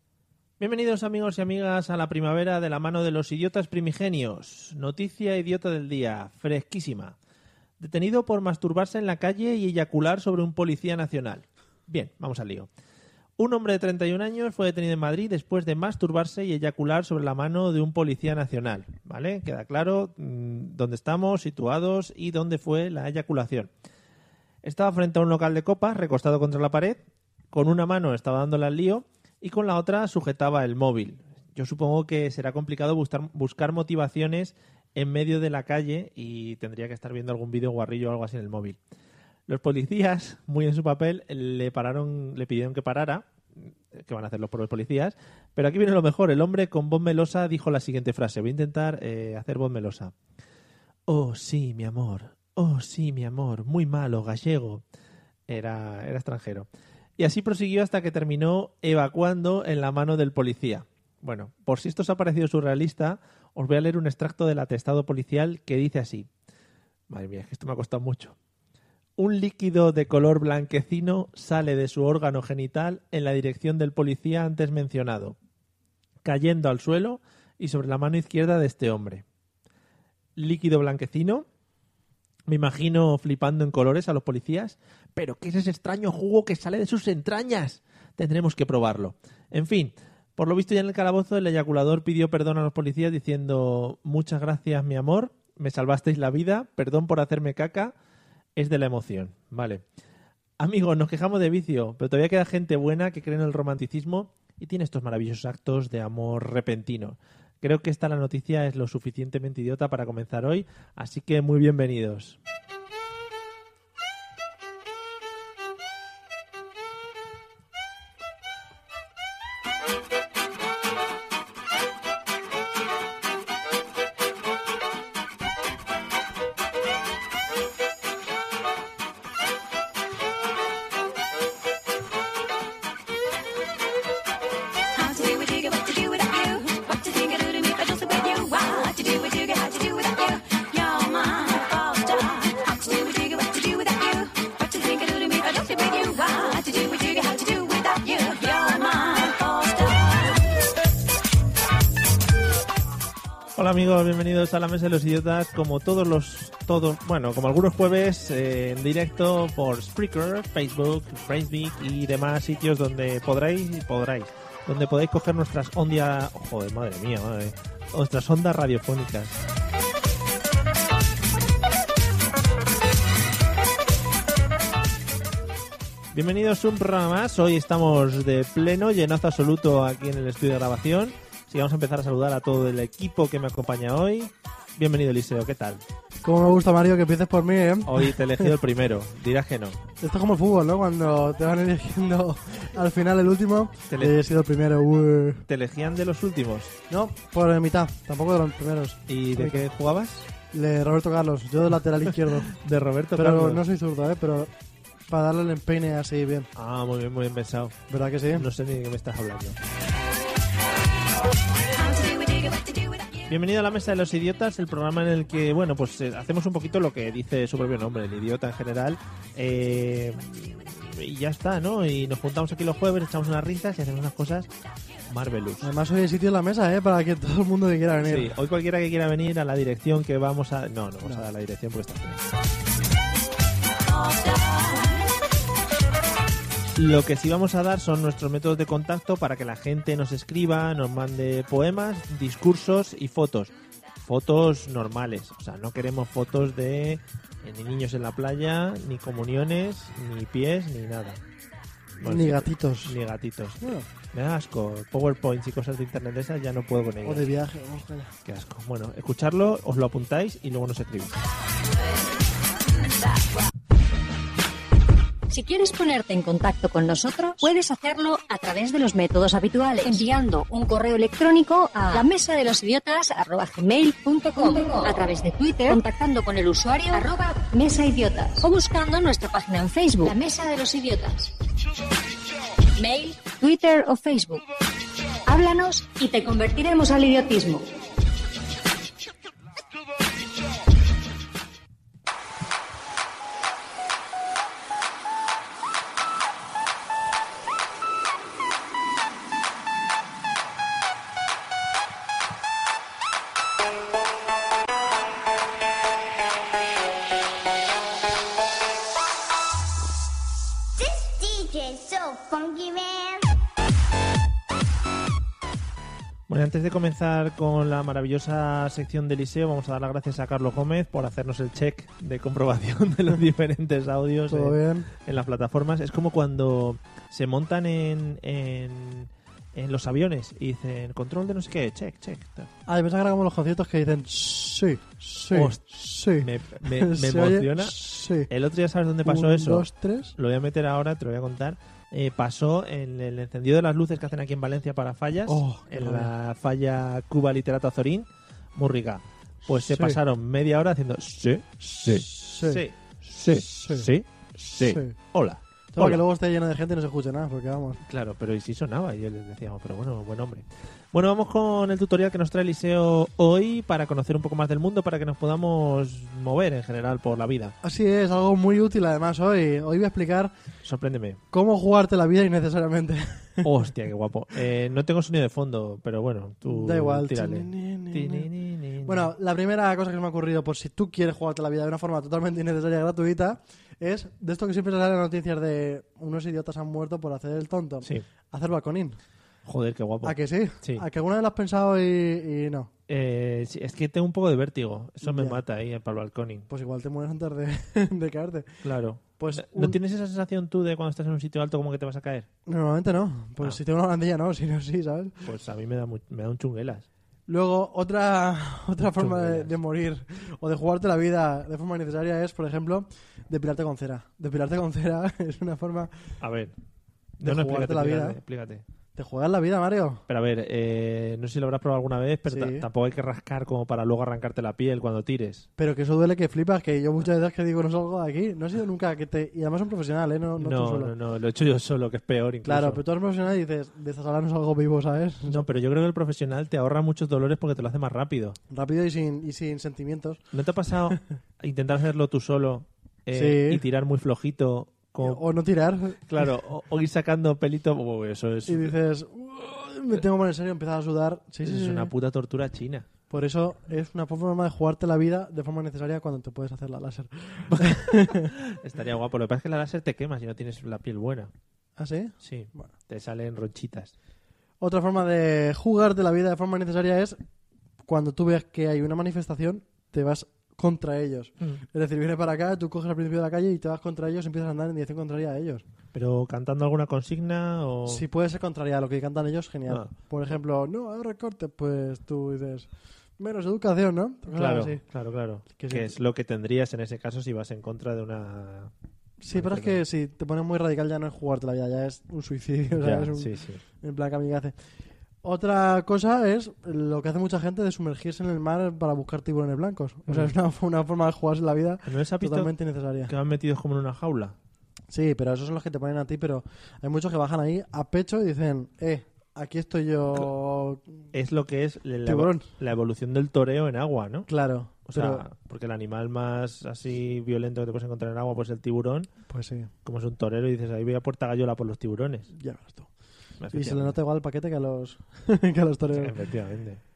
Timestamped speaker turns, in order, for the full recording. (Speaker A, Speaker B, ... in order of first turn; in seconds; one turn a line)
Speaker A: 0.6-7.2
Speaker A: 7.8-12.7
Speaker A: 13.4-23.7
Speaker A: 24.6-27.0
Speaker A: 27.5-38.8
Speaker A: 39.5-50.1
Speaker A: 51.1-54.8
Speaker A: 55.5-56.7
Speaker A: 57.2-66.3
Speaker A: 67.1-68.3
Speaker A: 69.2-75.3
Speaker A: 76.2-79.2
Speaker A: 80.4-81.5
Speaker A: 82.5-97.9
Speaker A: 98.6-99.8
Speaker A: 100.6-112.4
Speaker B: 134.9-150.4
Speaker A: 153.6-169.4
Speaker A: 176.1-185.8
Speaker C: 186.2-188.6
Speaker A: 187.8-189.8
Speaker C: 190.0-195.4
Speaker A: 193.9-194.2
Speaker A: 195.5-196.8
Speaker C: 196.9-199.6
Speaker A: 199.1-200.3
Speaker C: 200.5-202.5
Speaker A: 202.5-203.6
Speaker C: 203.2-204.5
Speaker C: 205.1-206.5
Speaker A: 206.6-207.8
Speaker C: 207.9-208.5
Speaker A: 208.3-209.6
Speaker B: 211.7-213.1
Speaker A: 213.3-224.5
Speaker A: 225.1-225.7
Speaker C: 225.6-228.3
Speaker A: 228.0-232.2
Speaker B: 233.9-235.0
Speaker A: 236.8-243.5
Speaker A: 244.0-251.2
Speaker A: 252.0-257.3
Speaker C: 252.0-253.0
Speaker C: 253.6-253.9
Speaker C: 257.0-258.1
Speaker A: 258.2-261.2
Speaker D: 265.3-281.3
Speaker D: 282.8-284.4
Speaker D: 285.3-287.7
Speaker E: 310.8-313.3
Speaker A: 316.3-332.5
Speaker C: 324.3-324.9
Speaker C: 332.7-338.3
Speaker A: 335.3-335.6
Speaker A: 336.2-356.0
Speaker C: 339.0-340.1
Speaker C: 345.3-346.1
Speaker C: 349.5-350.0
Speaker C: 351.6-352.6
Speaker C: 353.2-354.9
Speaker C: 355.7-357.8
Speaker A: 357.9-367.6
Speaker C: 367.6-370.3
Speaker A: 370.6-371.2
Speaker C: 371.3-373.5
Speaker A: 373.4-379.1
Speaker C: 376.5-378.3
Speaker C: 378.8-389.0
Speaker A: 389.5-390.9
Speaker C: 390.0-392.7
Speaker A: 392.9-396.5
Speaker C: 395.0-395.4
Speaker C: 396.5-398.6
Speaker A: 398.6-402.3
Speaker C: 399.2-399.8
Speaker C: 402.5-405.3
Speaker A: 405.2-406.9
Speaker C: 407.3-415.9
Speaker A: 408.9-409.6
Speaker A: 416.2-416.6
Speaker A: 417.2-418.6
Speaker C: 417.2-418.2
Speaker C: 418.9-420.0
Speaker A: 420.1-425.5
Speaker C: 422.3-422.7
Speaker C: 425.6-430.9
Speaker A: 430.4-432.8
Speaker C: 432.4-435.4
Speaker A: 435.3-438.4
Speaker C: 438.5-440.2
Speaker A: 440.3-445.2
Speaker C: 443.1-443.6
Speaker C: 445.0-446.3
Speaker A: 446.1-448.8
Speaker C: 448.5-451.9
Speaker A: 451.4-452.9
Speaker C: 453.1-458.3
Speaker A: 457.5-461.3
Speaker C: 461.8-462.7
Speaker A: 462.2-463.9
Speaker C: 464.6-467.2
Speaker C: 467.9-475.6
Speaker A: 475.9-478.0
Speaker C: 477.9-484.8
Speaker A: 484.3-488.7
Speaker C: 485.6-485.9
Speaker C: 489.2-494.6
Speaker A: 489.3-489.8
Speaker A: 492.8-493.6
Speaker C: 495.2-503.1
Speaker A: 501.9-502.5
Speaker A: 503.1-504.4
Speaker C: 504.9-510.8
Speaker A: 511.1-514.3
Speaker C: 512.0-512.5
Speaker C: 514.3-515.2
Speaker A: 514.9-519.1
Speaker C: 519.3-519.7
Speaker A: 519.9-522.3
Speaker C: 522.4-522.9
Speaker A: 523.4-524.0
Speaker C: 523.5-526.1
Speaker A: 525.9-526.8